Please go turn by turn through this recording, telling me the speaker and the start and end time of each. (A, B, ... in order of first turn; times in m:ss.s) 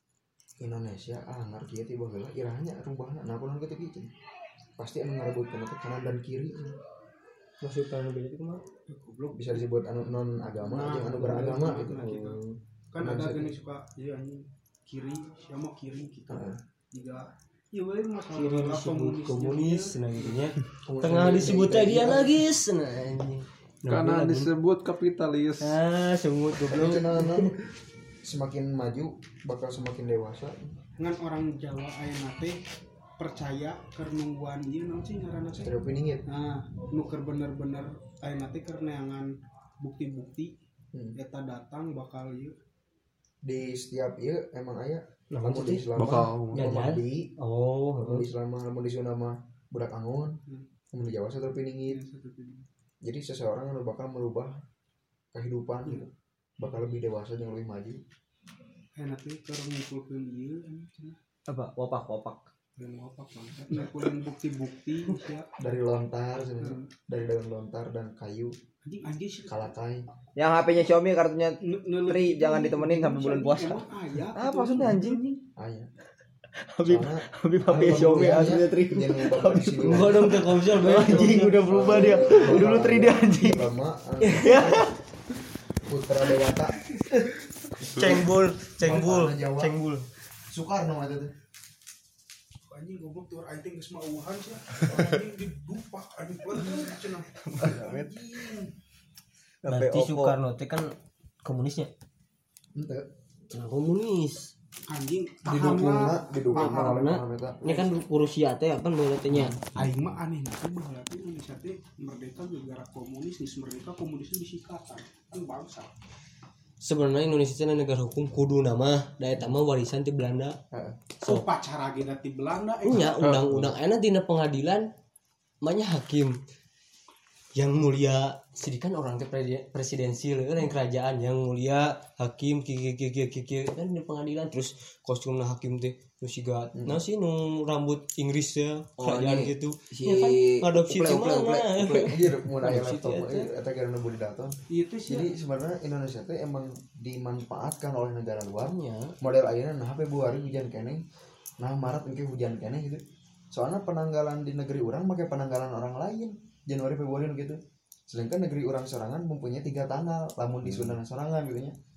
0:00.6-0:04.1 A
0:04.8-0:06.8 A
0:07.6-0:08.6 B
0:08.9-0:09.6 C
0:09.3-0:12.1 A
0:10.6-0:12.4 C
0:12.0-0:12.6 B
0:12.9-0:20.5 C
0:13.0-0:13.6 A
0:16.3-0:16.6 A
0:18.3-0:24.5 B
0:20.8-0:22.4 A
0:23.9-0:25.8 D
0:25.6-0:27.6 B
0:26.7-0:27.5 A
0:28.2-0:30.7 A
0:31.0-0:32.6 C
0:33.2-0:35.8 C
0:35.6-0:36.2 A
0:36.3-0:39.3 C
0:39.8-0:40.5 C
0:40.9-0:41.2 A
0:41.2-0:42.5 C
0:43.4-0:47.3 A
0:45.3-0:48.3 B
0:45.9-0:46.7 D
0:48.0-0:50.4 A
0:50.9-0:52.0 A
0:51.9-0:52.6 C
0:53.0-0:54.6 A
0:55.3-0:58.0 A
0:59.0-1:01.2 C
1:01.5-1:02.5 E
1:02.8-1:05.5 C
1:05.6-1:08.5 A
1:06.6-1:06.9 C
1:08.8-1:09.7 C
1:09.5-1:10.1 A
1:10.4-1:15.2 E
1:11.6-1:15.4 C
1:15.6-1:15.9 A
1:16.8-1:17.0 B
1:16.8-1:24.9 A
1:16.9-1:23.7 E
1:17.8-1:18.5 B
1:19.8-1:21.6 B
1:24.2-1:24.9 B
1:25.8-1:26.8 A
1:27.8-1:30.1 B
1:28.8-1:29.7 A
1:30.5-1:31.3 A
1:32.7-1:38.7 C
1:37.6-1:38.1 A
1:37.6-1:38.5 E
1:39.6-1:40.4 E
1:39.7-1:40.9 B
1:41.4-1:41.9 B
1:42.8-1:43.0 A
1:43.5-1:44.5 B
1:44.9-1:47.0 C
1:45.4-1:47.8 A
1:46.5-1:49.6 B
1:49.3-1:49.6 A
1:49.6-1:55.9 C
1:56.8-2:00.6 B
2:00.7-2:01.0 A
2:01.2-2:03.2 C
2:02.8-2:04.9 B
2:03.2-2:03.8 D
2:05.6-2:06.3 B
2:07.5-2:23.5 B
2:16.8-2:17.0 A
2:19.0-2:22.1 E
2:22.1-2:24.6 A
2:24.7-2:25.3 C
2:25.1-2:31.0 A
2:28.6-2:29.1 B
2:31.6-2:41.8 A
2:40.6-2:41.0 D